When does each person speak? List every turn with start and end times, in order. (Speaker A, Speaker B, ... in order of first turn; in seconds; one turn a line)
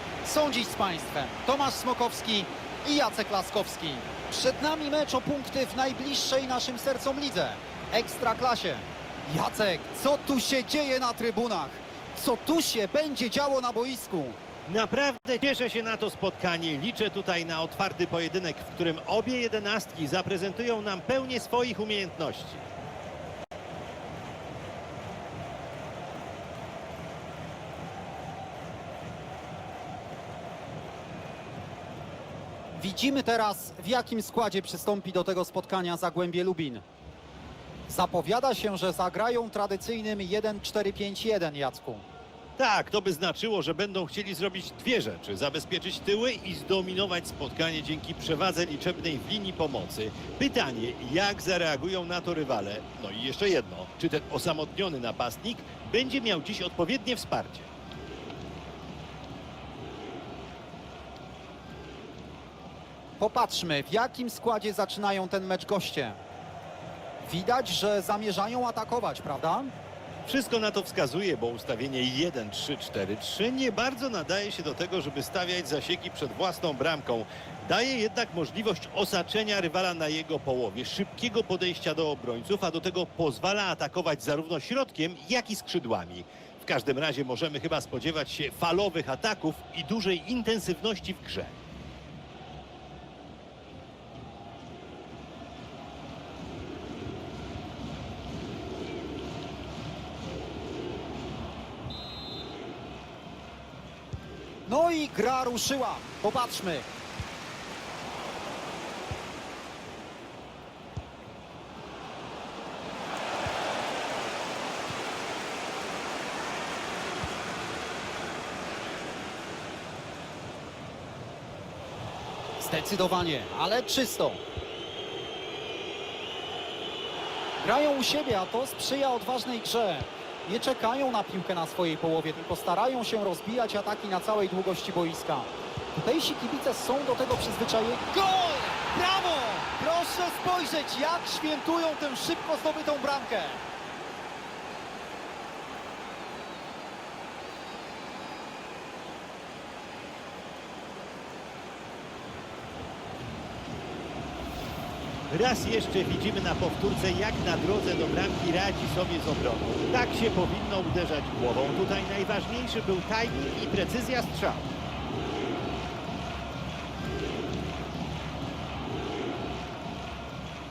Speaker A: 0.2-14.4
Speaker B: 14.7-22.7
Speaker A: 32.8-36.8
Speaker A: 37.9-42.0
Speaker B: 42.6-57.7
Speaker A: 63.2-66.2
Speaker A: 67.2-69.7
Speaker B: 70.2-91.6
Speaker A: 104.7-106.8
Speaker A: 122.6-124.4
Speaker A: 127.6-143.6
Speaker B: 155.3-164.7